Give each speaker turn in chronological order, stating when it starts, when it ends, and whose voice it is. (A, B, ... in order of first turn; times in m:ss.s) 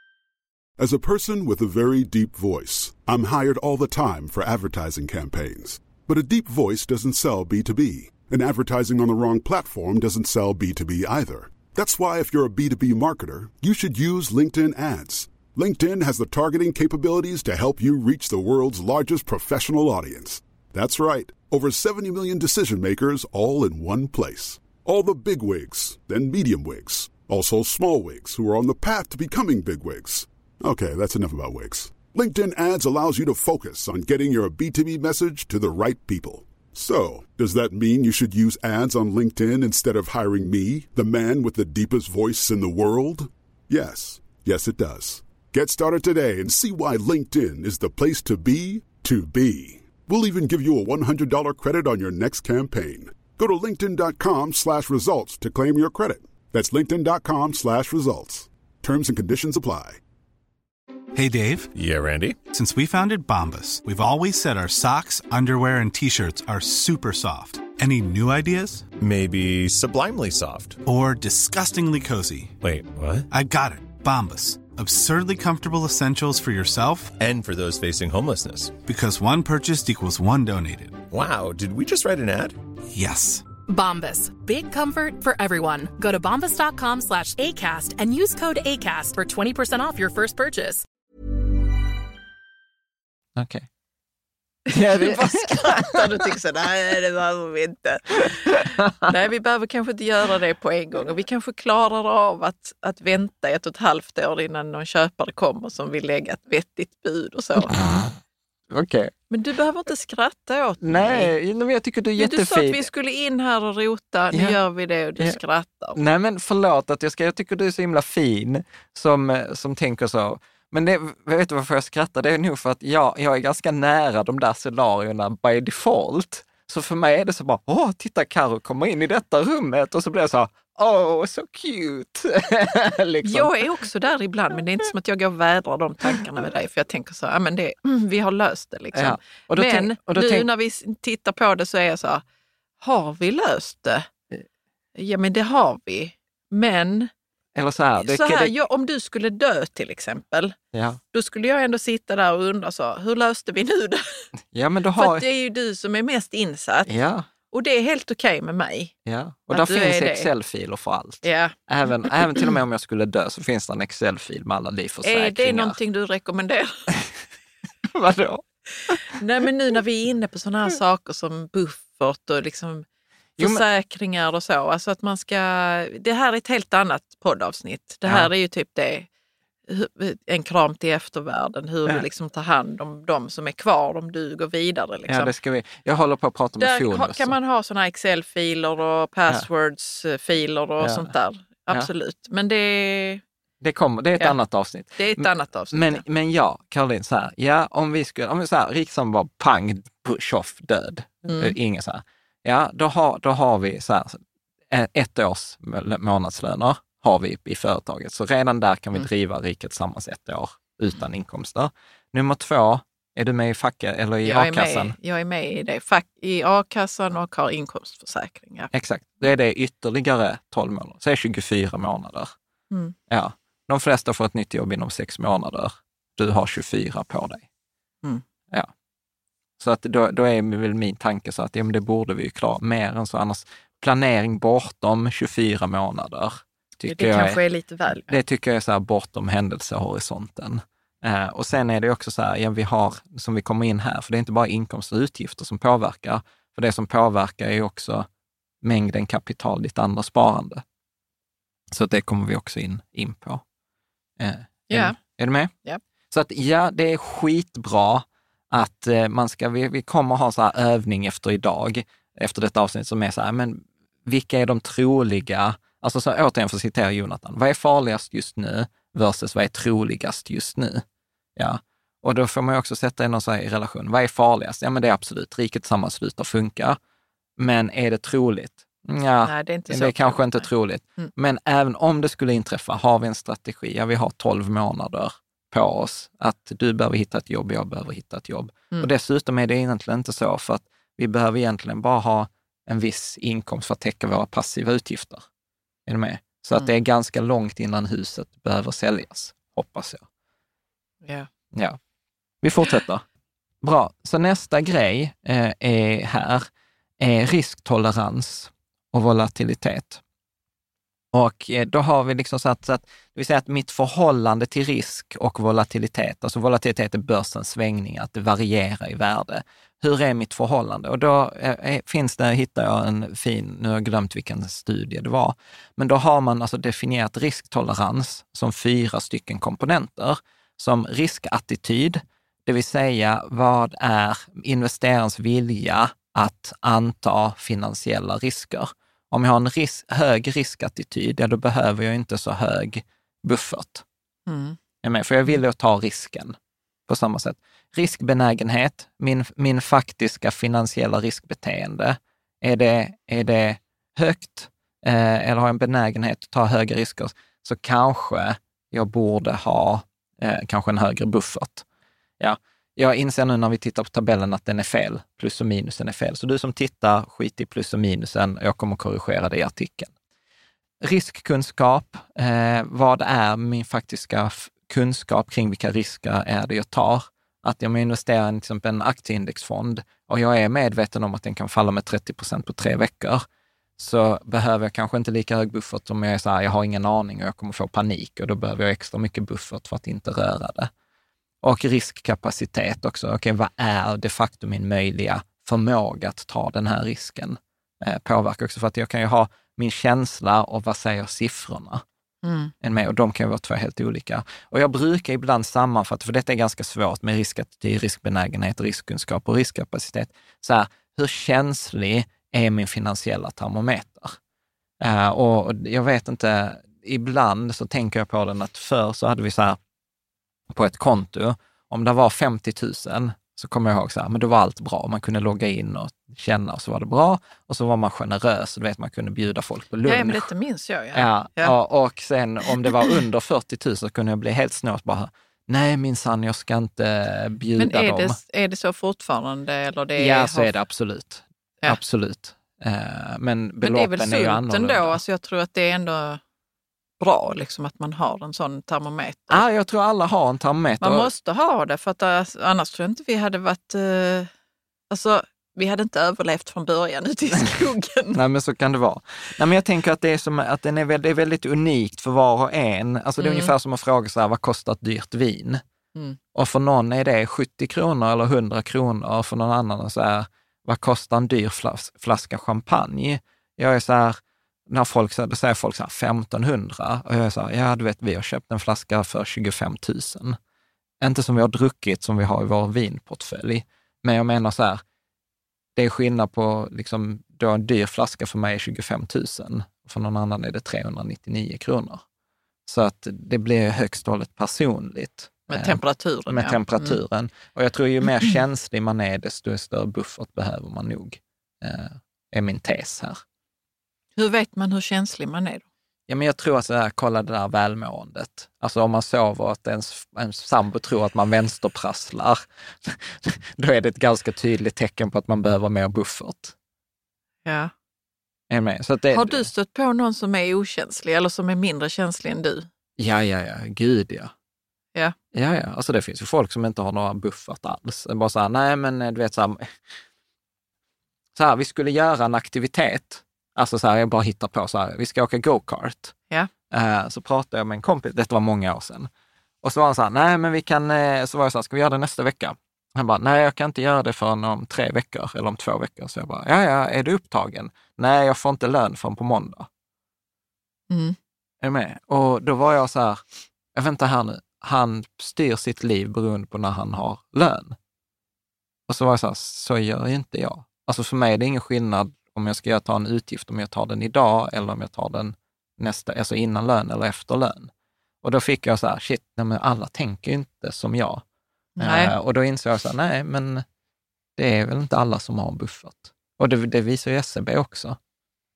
0:00.8-1:00.0 A
1:01.1-1:01.7 B
1:01.7-1:02.4 C
1:02.5-1:08.9 B
1:08.9-1:10.8 C
1:10.8-1:12.6 B
1:12.6-1:13.2 C
1:13.3-1:17.2 B
1:17.2-1:18.8 C
1:18.8-1:21.0 B
1:21.1-1:22.6 C
1:22.9-1:23.4 B
1:23.6-1:30.8 D
1:33.3-1:33.6 E
1:34.7-1:47.8 F
1:34.7-1:36.0 E
1:47.7-1:48.1 E
1:48.7-1:49.1 E
1:49.3-1:51.4 F
1:50.8-1:52.9 E
1:52.2-1:56.0 F
1:54.3-1:54.6 E
1:55.9-2:13.6 E
2:13.2-2:22.2 F
2:18.9-2:20.5 E
2:22.8-2:24.1 F
2:25.0-2:27.1 F
2:27.5-2:28.5 E
2:28.0-2:30.5 F
2:30.7-2:31.0 E
2:31.1-2:34.2 F
2:34.5-2:35.2 E
2:35.0-2:36.9 F
2:36.8-2:37.3 E
2:37.5-2:38.9 F
2:39.0-2:45.8 E
2:39.5-2:40.3 F
2:41.2-2:42.4 F
2:45.0-2:46.9 F
2:47.8-2:49.0 E
2:48.8-2:52.8 F
2:53.4-2:59.1 F
2:53.4-2:53.6 E
2:59.7-3:05.3 F
3:05.1-3:07.3 E
3:06.6-3:13.2 F
3:10.8-3:11.1 E
3:13.6-3:34.9 E
3:15.0-3:16.0 F
3:21.2-3:21.5 F
3:34.2-3:38.7 F
3:38.7-3:42.3 E
3:43.1-3:47.4 E
3:49.6-3:57.4 E
3:56.8-3:58.2 F
3:58.0-4:08.1 E
4:08.6-4:10.6 E
4:11.7-4:13.4 E
4:14.2-4:15.5 E
4:14.7-4:15.0 F
4:16.1-4:30.8 E
4:31.4-4:36.8 E
4:37.4-4:55.2 E
4:39.2-4:41.1 F
4:55.9-5:00.0 E
5:01.0-5:01.3 F
5:01.5-5:01.8 E
5:02.4-5:03.0 E
5:03.6-5:10.0 E
5:11.1-5:43.8 E
5:44.3-5:44.6 F
5:44.8-5:46.4 E
5:46.9-6:01.6 E
6:02.2-6:09.9 E
6:10.8-6:23.2 E
6:23.8-6:30.7 E
6:31.4-6:41.8 E
6:42.2-6:42.5 F
6:42.6-6:54.2 E
6:54.8-6:59.6 E
7:00.5-7:10.3 E
7:09.8-7:11.5 F
7:10.9-7:18.2 E
7:17.6-7:20.5 F
7:20.0-7:25.0 E
7:23.6-7:26.2 F
7:27.0-7:29.4 F
7:29.3-7:31.1 E
7:30.8-7:34.3 F
7:34.9-7:38.2 F
7:38.1-7:45.6 E
7:43.2-7:43.5 F
7:46.3-8:00.4 E
8:01.0-8:04.8 E
8:05.8-8:12.0 E
8:12.6-8:23.2 E
8:15.5-8:17.0 F
8:24.2-8:25.6 F
8:26.1-8:36.5 E
8:37.4-8:37.7 F
8:38.5-8:39.5 E
8:39.1-8:42.7 F
8:43.0-8:44.3 E
8:45.3-8:49.8 E
8:51.3-8:56.2 E
8:56.7-8:59.1 E
8:59.6-9:09.7 E
9:10.9-9:11.2 F
9:11.6-9:13.2 E
9:13.7-9:17.8 E
9:18.9-9:27.7 E
9:28.2-9:31.2 E
9:31.8-9:32.1 F
9:31.8-9:33.6 E
9:34.4-9:38.0 E